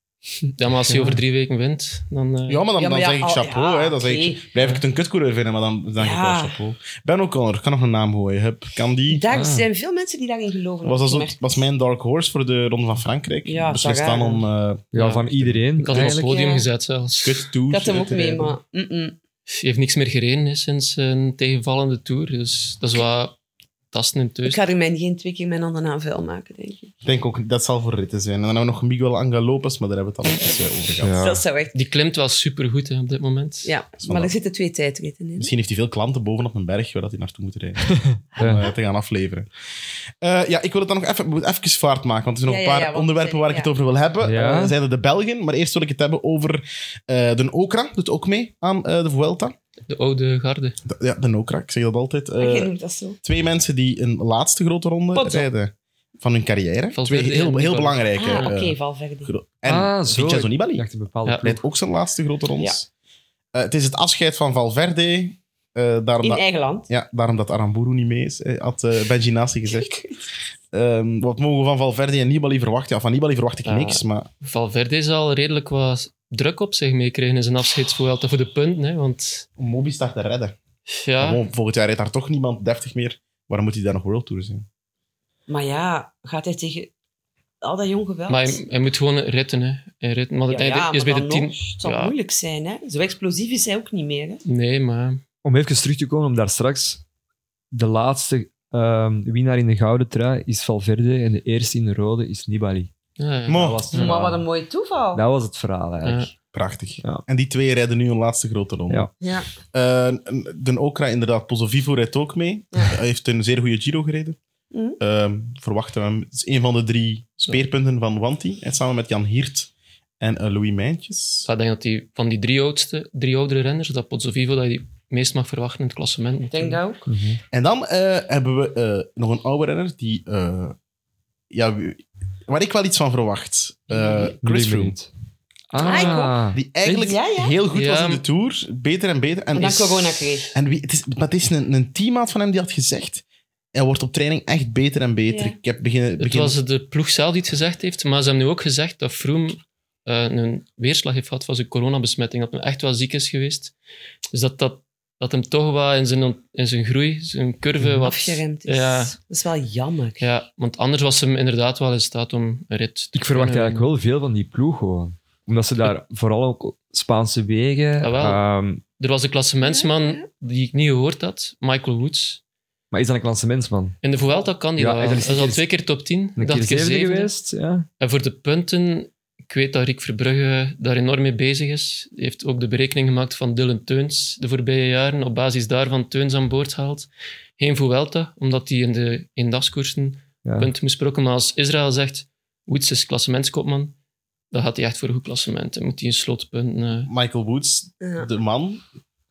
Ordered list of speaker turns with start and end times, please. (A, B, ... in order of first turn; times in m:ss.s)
0:00.6-0:02.6 A
0:00.9-0:01.2 B
0:02.5-0:09.3 C
0:02.8-0:04.5 D
0:06.0-0:06.6 D
0:09.1-0:11.4 D
0:09.3-0:09.7 B
0:10.8-0:15.8 C
0:13.5-0:14.4 D
0:14.9-0:16.3 B
0:15.0-0:15.2 A
0:15.8-0:17.5 A
0:15.9-0:16.7 D
0:17.2-0:18.6 C
0:17.7-0:19.2 D
0:19.5-0:23.4 A
0:23.9-0:24.6 A
0:24.4-0:26.9 D
0:27.0-0:31.2 C
0:31.0-0:31.4 B
0:31.2-0:31.8 D
0:31.7-0:33.7 A
0:33.6-0:35.5 D
0:34.0-0:34.3 C
0:35.4-0:39.5 C
0:37.9-0:38.7 B
0:40.2-0:49.6 C
0:42.5-0:43.7 D
0:44.2-0:44.8 B
0:49.9-0:50.8 A
0:50.9-0:52.7 C
0:52.4-0:53.2 D
0:53.2-1:00.9 C
0:55.1-0:55.5 D
0:56.9-0:58.5 A
0:58.2-0:59.3 D
0:59.7-1:01.6 B
1:01.2-1:01.5 A
1:01.4-1:02.9 C
1:03.5-1:09.9 C
1:06.2-1:06.9 D
1:09.7-1:10.2 D
1:10.7-1:14.3 C
1:13.6-1:19.5 A
1:19.6-1:20.6 C
1:20.9-1:21.4 A
1:21.2-1:24.7 C
1:25.5-1:26.9 D
1:27.6-1:28.6 D
1:28.3-1:32.2 A
1:30.5-1:34.4 D
1:34.4-1:35.2 A
1:35.4-1:37.0 B
1:37.7-1:42.9 B
1:43.2-1:44.2 A
1:43.5-1:43.8 C
1:43.5-1:44.4 B
1:43.9-1:45.2 D
1:45.2-1:46.3 B
1:46.0-1:46.3 A
1:46.5-1:49.1 C
1:49.2-1:49.5 D
1:49.7-1:54.4 C
1:54.7-1:55.0 D
1:55.0-2:01.5 C
2:01.5-2:06.8 A
2:06.5-2:07.1 D
2:07.1-2:07.4 B
2:07.5-2:10.8 C
2:11.5-2:15.0 C
2:13.9-2:14.3 D
2:14.4-2:15.1 B
2:15.7-2:17.1 B
2:15.8-2:16.4 D
2:15.8-2:26.6 C
2:16.9-2:17.6 D
2:17.7-2:18.2 A
2:19.6-2:20.6 D
2:25.3-2:25.6 D
2:26.2-2:33.7 A
2:34.3-2:39.2 A
2:37.9-2:40.3 D
2:40.2-2:43.9 A
2:43.2-2:48.8 B
2:48.0-2:48.4 A
2:49.0-2:52.4 A
2:49.6-2:50.3 D
2:52.9-2:54.0 B
2:54.0-2:57.3 A
2:54.8-2:55.6 B
2:56.4-2:57.9 B
2:58.0-3:13.9 A
3:10.4-3:10.7 B
3:14.5-3:17.1 A
3:17.1-3:18.8 C
3:18.0-3:18.3 D